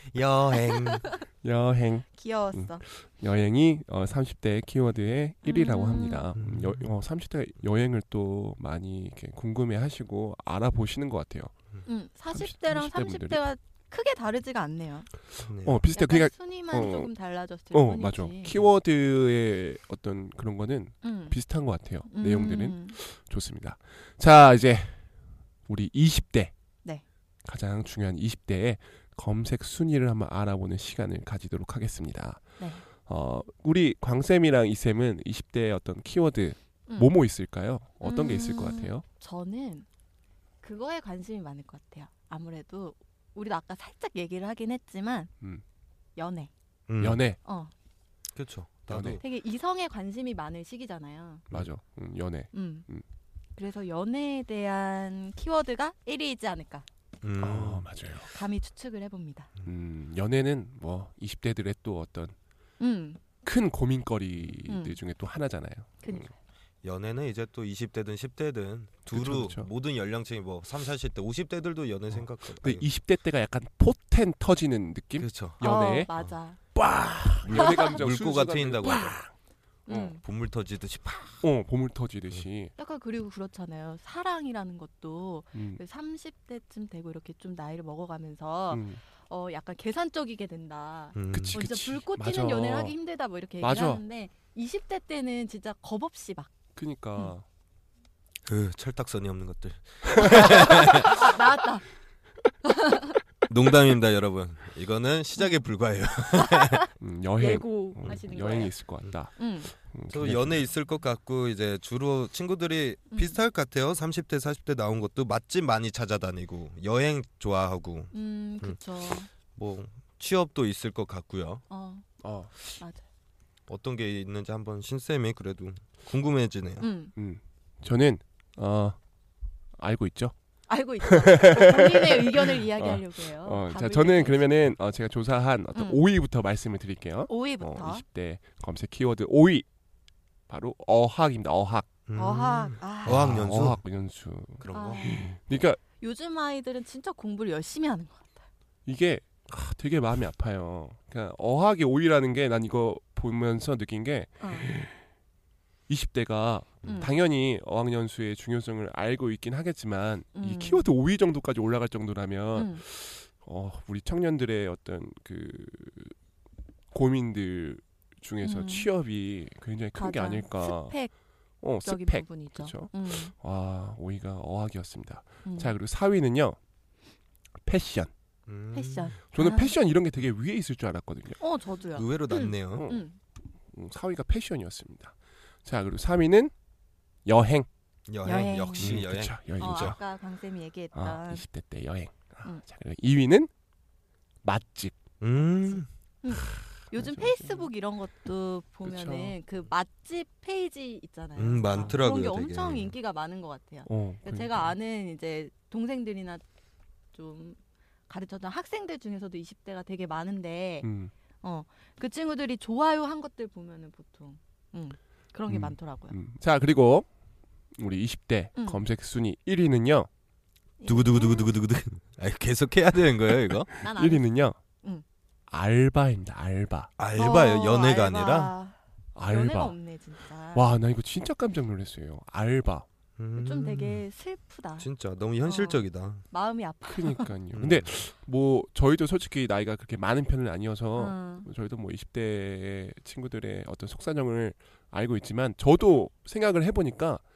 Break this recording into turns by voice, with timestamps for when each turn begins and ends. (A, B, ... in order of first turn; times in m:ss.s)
0:00.1-0:01.0 A
0:00.6-0:01.2 B
0:01.4-0:11.5 C
0:02.2-0:02.8 B
0:05.4-0:06.3 B
0:06.4-0:06.9 A
0:11.9-0:15.1 B
0:12.3-0:13.4 C
0:15.4-0:15.8 A
0:15.4-0:17.1 C
0:15.9-0:18.6 B
0:17.7-0:25.0 C
0:21.0-0:21.4 B
0:22.1-0:23.0 B
0:25.7-0:26.5 C
0:27.4-0:32.4 C
0:33.0-0:39.0 C
0:36.9-0:37.1 B
0:38.0-0:39.8 B
0:40.6-0:45.3 B
0:46.2-0:46.5 B
0:46.9-0:47.2 A
0:47.0-0:47.4 C
0:47.4-0:47.7 B
0:48.4-0:49.2 A
0:48.9-0:49.2 C
0:49.2-0:51.4 B
0:51.5-0:53.0 C
0:52.5-0:52.9 B
0:53.6-0:56.9 B
0:57.2-0:57.9 A
0:57.4-0:58.3 C
0:58.3-0:59.5 B
0:59.7-1:02.4 C
1:02.8-1:03.2 B
1:03.4-1:06.3 C
1:04.7-1:05.0 B
1:06.0-1:06.3 B
1:06.8-1:12.9 A
1:09.1-1:09.7 C
1:12.1-1:16.1 C
1:15.2-1:16.3 A
1:15.6-1:16.6 B
1:16.7-1:19.3 C
1:17.5-1:19.2 A
1:17.6-1:17.9 B
1:18.8-1:19.1 B
1:19.9-1:20.2 B
1:19.9-1:21.5 A
1:21.4-1:22.7 C
1:22.8-1:36.5 B
1:25.5-1:25.8 C
1:28.7-1:29.0 C
1:31.2-1:31.6 A
1:31.3-1:33.0 C
1:33.6-1:34.0 C
1:36.8-1:37.5 C
1:38.5-1:41.3 A
1:40.2-1:40.6 C
1:40.2-1:41.8 B
1:42.6-1:43.2 B
1:43.5-1:46.8 A
1:46.6-1:46.9 B
1:47.0-1:50.7 C
1:47.4-1:48.7 B
1:49.4-1:49.7 B
1:50.1-1:58.8 A
1:53.1-1:53.4 B
1:58.1-1:59.3 B
1:59.5-2:01.6 A
2:01.7-2:02.0 B
2:02.2-2:02.5 C
2:03.7-2:06.9 A
2:06.8-2:07.1 B
2:07.2-2:09.0 C
2:09.8-2:10.3 C
2:10.7-2:14.6 B
2:11.0-2:19.7 C
2:15.7-2:16.0 B
2:17.3-2:18.0 B
2:20.5-2:21.9 C
2:22.1-2:23.8 A
2:22.2-2:23.2 B
2:23.1-2:25.8 C
2:24.6-2:25.3 A
2:24.7-2:25.2 B
2:26.0-2:28.5 B
2:28.9-2:35.0 C
2:34.4-2:34.7 B
2:35.9-2:46.2 C
2:36.8-2:37.1 A
2:36.8-2:37.1 B
2:40.3-2:40.9 B
2:42.6-2:42.8 B
2:46.9-2:51.0 C
2:48.4-2:48.9 B
2:50.0-2:51.1 B
2:51.6-2:56.6 C
2:51.8-2:53.3 B
2:55.5-2:55.7 B
2:57.6-2:58.1 C
2:58.5-2:59.2 A
2:58.7-2:59.7 B
2:59.3-3:01.4 C
3:01.4-3:03.2 B
3:02.0-3:02.9 A
3:02.7-3:03.0 C
3:03.7-3:06.5 C
3:07.2-3:07.7 C
3:08.1-3:10.0 A
3:08.2-3:09.0 B
3:08.8-3:10.0 C
3:09.6-3:11.5 B
3:10.9-3:13.5 C
3:14.4-3:15.0 C
3:15.2-3:15.9 A
3:16.2-3:26.4 B
3:16.4-3:17.7 C
3:18.8-3:19.4 C
3:21.4-3:22.9 A
3:23.9-3:24.7 C
3:27.1-3:30.9 B
3:30.8-3:31.1 C
3:31.4-3:36.2 B
3:35.5-3:37.1 C
3:37.7-3:40.1 C
3:38.6-3:38.8 B
3:40.8-3:41.5 B
3:40.9-3:43.7 A
3:43.8-3:44.6 C
3:43.8-3:44.3 B
3:45.5-3:46.9 C
3:47.0-3:48.5 A
3:47.2-3:50.7 B
3:49.2-3:49.8 C
3:50.5-3:52.9 C
3:53.2-3:54.0 A
3:53.4-3:54.9 B
3:54.8-3:56.2 A
3:55.4-3:57.3 B
3:56.9-4:07.2 C
3:57.5-3:57.9 A
4:01.0-4:01.5 B